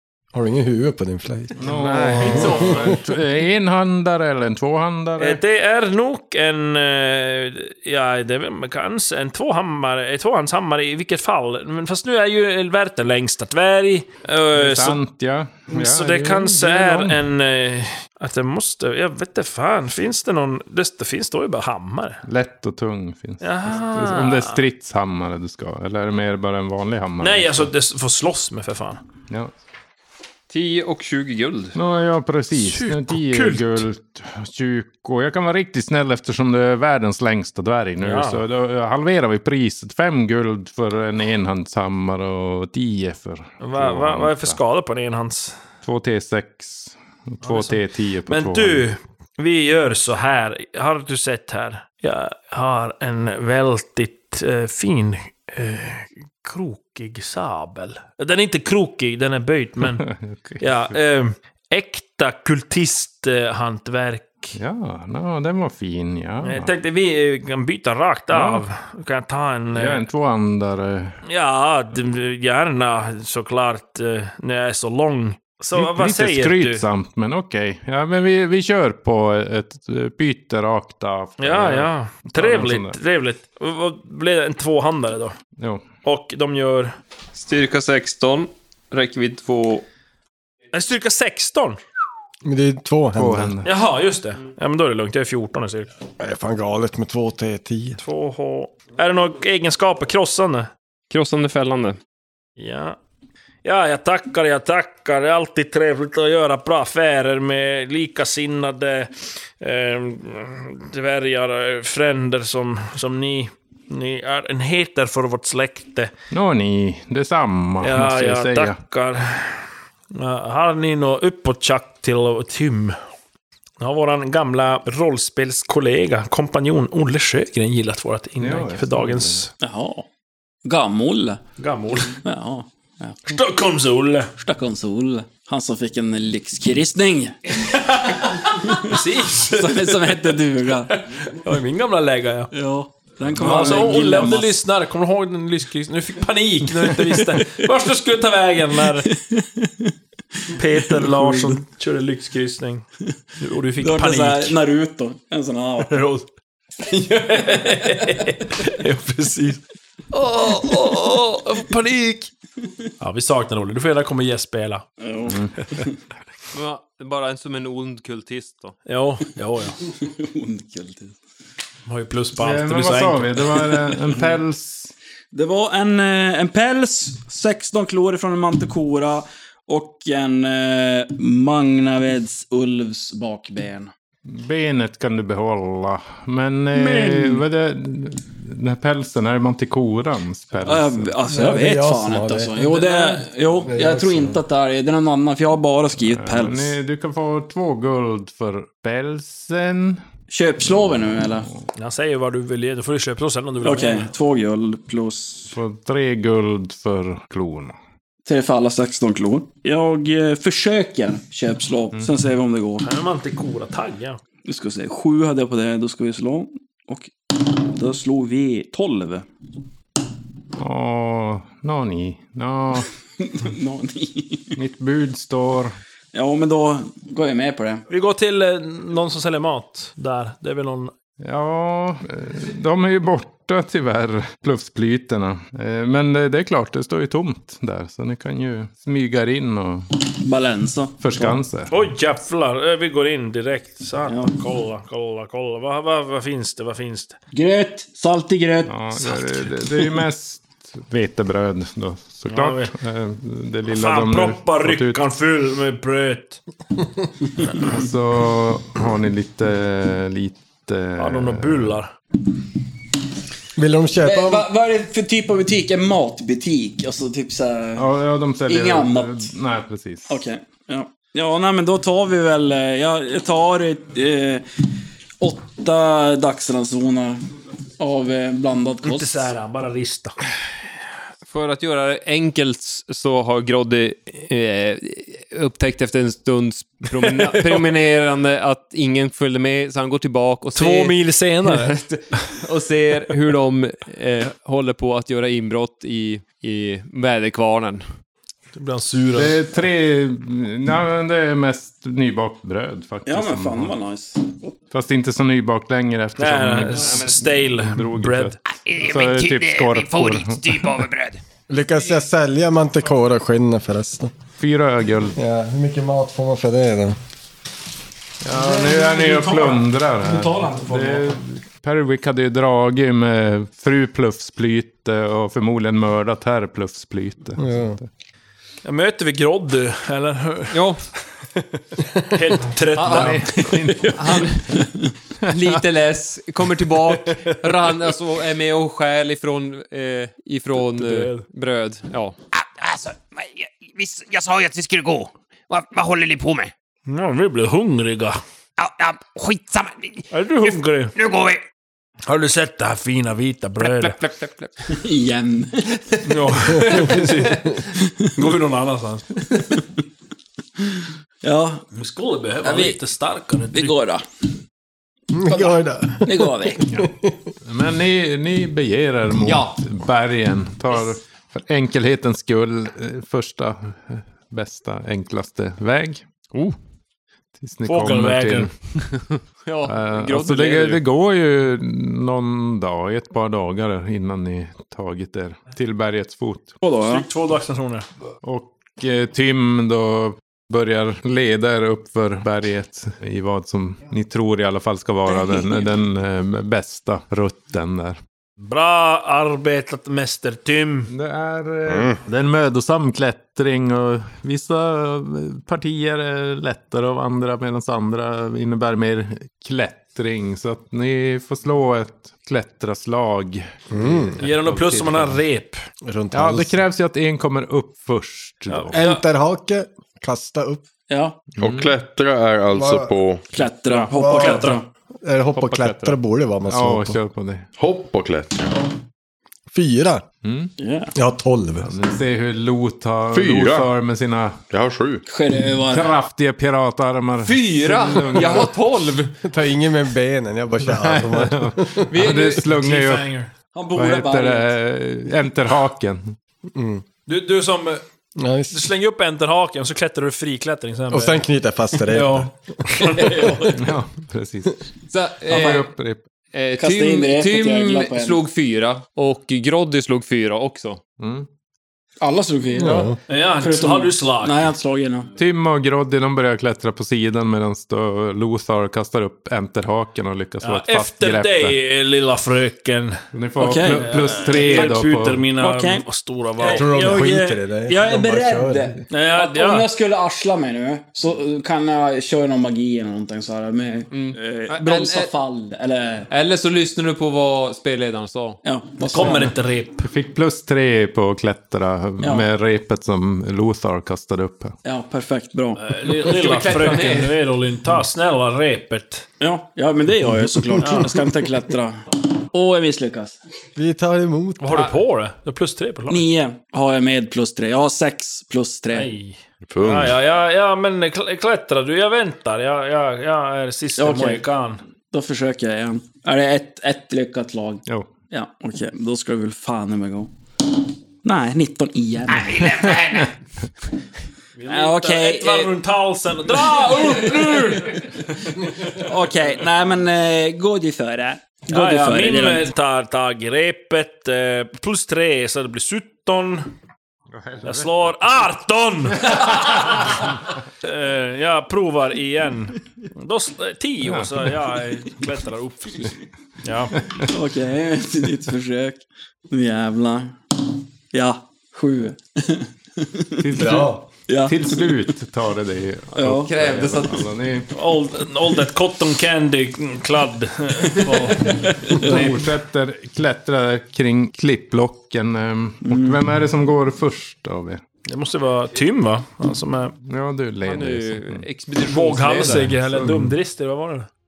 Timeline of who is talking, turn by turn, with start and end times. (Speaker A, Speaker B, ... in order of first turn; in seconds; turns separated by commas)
Speaker A: 0.3-3.0, Speaker B: 1.6-5.4, Speaker C: 1.7-2.8, Speaker C: 5.2-15.0, Speaker B: 14.5-17.2, Speaker C: 15.7-22.2, Speaker B: 22.2-27.7, Speaker C: 23.4-24.6, Speaker C: 27.2-29.0, Speaker D: 30.5-31.7, Speaker B: 31.7-44.6, Speaker C: 32.5-33.8, Speaker C: 38.0-38.4, Speaker C: 43.6-45.6, Speaker B: 45.8-48.9, Speaker C: 47.4-60.1, Speaker B: 59.8-60.9, Speaker C: 60.6-64.5, Speaker B: 64.5-66.7, Speaker C: 66.4-70.0, Speaker B: 68.3-68.6, Speaker B: 69.7-71.2, Speaker C: 71.2-76.8, Speaker B: 75.7-83.0, Speaker C: 81.4-85.3, Speaker B: 85.6-85.8, Speaker C: 86.0-87.0, Speaker D: 87.3-89.8, Speaker C: 90.7-91.8, Speaker A: 92.4-93.5, Speaker B: 93.1-93.7, Speaker C: 93.6-95.9, Speaker A: 96.2-98.0, Speaker C: 98.0-100.7, Speaker D: 101.1-102.0, Speaker C: 102.6-103.0, Speaker C: 103.6-116.1, Speaker B: 116.3-118.8, Speaker C: 117.8-123.0, Speaker C: 123.8-129.5, Speaker B: 128.4-129.4, Speaker E: 129.6-130.1, Speaker E: 130.6-131.4, Speaker C: 131.6-132.2, Speaker E: 132.2-133.3, Speaker C: 133.2-134.3, Speaker E: 134.3-137.4, Speaker C: 137.7-142.5, Speaker E: 138.5-140.9, Speaker E: 142.5-144.6, Speaker C: 143.3-149.1, Speaker B: 143.4-143.9, Speaker E: 149.1-149.9, Speaker C: 150.5-154.5, Speaker E: 151.0-151.6, Speaker E: 153.8-156.0, Speaker C: 155.9-156.2, Speaker C: 156.8-159.6, Speaker C: 160.1-162.3, Speaker C: 163.0-164.9, Speaker E: 165.0-166.0, Speaker D: 166.5-168.7, Speaker C: 168.8-169.8, Speaker E: 169.9-171.2, Speaker C: 171.8-173.6, Speaker B: 172.3-174.9, Speaker E: 175.3-183.9, Speaker B: 184.2-191.1, Speaker E: 186.7-187.4, Speaker E: 190.6-196.8, Speaker A: 191.3-194.4, Speaker B: 195.9-200.0, Speaker E: 200.3-201.5, Speaker C: 201.8-204.1, Speaker E: 203.6-205.6, Speaker B: 205.5-207.8, Speaker E: 208.2-212.9, Speaker C: 212.8-214.2, Speaker E: 214.4-219.2, Speaker B: 220.6-222.9, Speaker E: 223.2-224.6, Speaker B: 224.5-225.8, Speaker E: 226.1-227.8, Speaker C: 227.9-230.9, Speaker B: 231.2-239.9, Speaker E: 240.0-241.4, Speaker B: 241.0-241.7, Speaker C: 241.7-247.2, Speaker E: 244.1-244.3, Speaker E: 247.3-249.2, Speaker B: 248.7-255.0, Speaker C: 252.3-252.7, Speaker C: 253.7-256.4, Speaker B: 257.6-261.7, Speaker C: 261.0-261.9, Speaker A: 263.6-264.5, Speaker E: 264.0-267.9, Speaker B: 267.8-270.2, Speaker E: 268.4-269.3, Speaker E: 270.1-274.4, Speaker E: 275.2-277.2, Speaker E: 277.8-279.3, Speaker C: 278.8-280.2, Speaker D: 281.2-297.8, Speaker C: 287.0-287.6, Speaker C: 290.5-291.8, Speaker C: 298.5-299.4, Speaker B: 299.1-303.7, Speaker E: 303.1-304.6, Speaker B: 304.7-310.8, Speaker C: 306.2-308.4, Speaker F: 308.6-311.2, Speaker A: 311.5-314.1, Speaker B: 314.4-315.2, Speaker A: 315.2-317.0, Speaker B: 318.2-327.9, Speaker E: 318.3-321.1, Speaker A: 327.4-327.8, Speaker C: 328.6-330.6, Speaker D: 330.5-330.8, Speaker C: 332.0-334.3, Speaker D: 332.8-333.4, Speaker B: 332.8-334.1, Speaker D: 333.9-334.6, Speaker D: 335.3-342.1, Speaker B: 335.4-335.6, Speaker C: 337.0-337.4, Speaker C: 340.5-341.2, Speaker F: 342.3-346.5, Speaker C: 346.9-348.2, Speaker F: 348.6-351.4, Speaker C: 350.1-350.9, Speaker C: 352.1-354.0, Speaker D: 353.8-354.3, Speaker E: 354.7-355.8, Speaker C: 356.0-359.2, Speaker A: 356.5-357.3, Speaker E: 361.2-361.6, Speaker C: 361.7-363.7, Speaker E: 362.4-362.8, Speaker E: 363.5-364.0, Speaker A: 365.1-367.1, Speaker E: 365.2-366.7, Speaker B: 367.4-376.0, Speaker D: 369.2-369.6, Speaker B: 377.4-378.5, Speaker C: 377.6-378.5, Speaker D: 379.4-380.8, Speaker B: 379.6-386.5, Speaker E: 386.6-387.1, Speaker C: 386.8-387.9, Speaker B: 388.2-398.0, Speaker C: 398.4-400.9, Speaker B: 400.9-415.2, Speaker G: 401.7-402.0, Speaker A: 413.7-414.1, Speaker C: 414.2-415.6, Speaker A: 415.8-416.5, Speaker B: 416.1-418.8, Speaker C: 418.5-419.0, Speaker A: 418.7-420.6, Speaker E: 420.9-421.2, Speaker G: 421.4-423.2, Speaker B: 421.4-421.7, Speaker A: 422.5-422.9, Speaker E: 423.3-424.7, Speaker A: 423.7-427.0, Speaker C: 424.0-424.6, Speaker D: 425.3-426.0, Speaker B: 426.5-427.5, Speaker G: 427.6-428.6, Speaker A: 429.5-430.0, Speaker B: 430.2-430.5, Speaker E: 430.6-430.9, Speaker A: 430.9-431.7, Speaker B: 431.6-434.4, Speaker G: 433.1-433.7, Speaker G: 434.5-435.0, Speaker E: 435.1-435.9, Speaker B: 435.7-438.5, Speaker D: 437.2-439.1, Speaker A: 439.2-441.9, Speaker B: 440.6-443.1, Speaker D: 441.9-442.4, Speaker C: 442.4-443.3, Speaker E: 443.5-444.5, Speaker B: 443.7-446.1, Speaker A: 446.5-446.8, Speaker C: 447.1-447.8, Speaker A: 448.2-448.6, Speaker C: 448.5-451.2, Speaker A: 450.9-453.5, Speaker C: 451.9-453.6, Speaker B: 453.5-454.6, Speaker D: 454.9-455.7, Speaker B: 455.2-456.0, Speaker E: 455.3-455.6, Speaker D: 456.3-460.8, Speaker E: 456.6-458.2, Speaker B: 461.0-461.3, Speaker E: 462.0-465.1, Speaker A: 462.6-463.0, Speaker C: 463.1-464.5, Speaker B: 465.2-471.6, Speaker C: 470.4-473.0, Speaker B: 473.1-475.2, Speaker E: 473.4-474.7, Speaker C: 473.6-477.0, Speaker E: 475.4-475.8, Speaker E: 476.4-486.1, Speaker A: 476.4-478.8, Speaker C: 478.9-479.7, Speaker D: 483.9-485.1, Speaker D: 486.1-488.4, Speaker E: 488.4-489.3, Speaker C: 488.9-489.9, Speaker B: 489.8-494.5, Speaker E: 492.0-492.2, Speaker E: 494.6-495.6, Speaker C: 495.6-499.1, Speaker D: 496.0-497.1, Speaker E: 499.2-503.2, Speaker A: 500.5-500.8, Speaker C: 500.6-500.9, Speaker A: 503.6-504.7, Speaker C: 504.4-506.1, Speaker E: 505.9-508.9, Speaker C: 508.7-514.6, Speaker G: 509.5-510.0, Speaker E: 513.8-514.2, Speaker E: 514.9-520.1, Speaker E: 521.0-522.7, Speaker F: 522.1-523.1, Speaker C: 524.3-528.2, Speaker E: 524.4-525.5, Speaker E: 526.5-532.5, Speaker C: 531.5-536.5, Speaker B: 537.1-537.9, Speaker C: 537.4-546.8, Speaker B: 543.8-544.3, Speaker E: 547.1-550.2, Speaker E: 550.9-553.2, Speaker B: 553.2-557.5, Speaker A: 553.3-553.8, Speaker E: 554.1-554.6, Speaker E: 555.9-556.3, Speaker D: 556.1-557.0, Speaker C: 557.5-561.7, Speaker E: 561.2-562.2, Speaker B: 561.8-567.6, Speaker E: 565.6-566.0, Speaker C: 567.9-569.7, Speaker B: 569.8-571.2, Speaker D: 570.4-572.6, Speaker C: 571.6-573.9, Speaker A: 572.8-573.1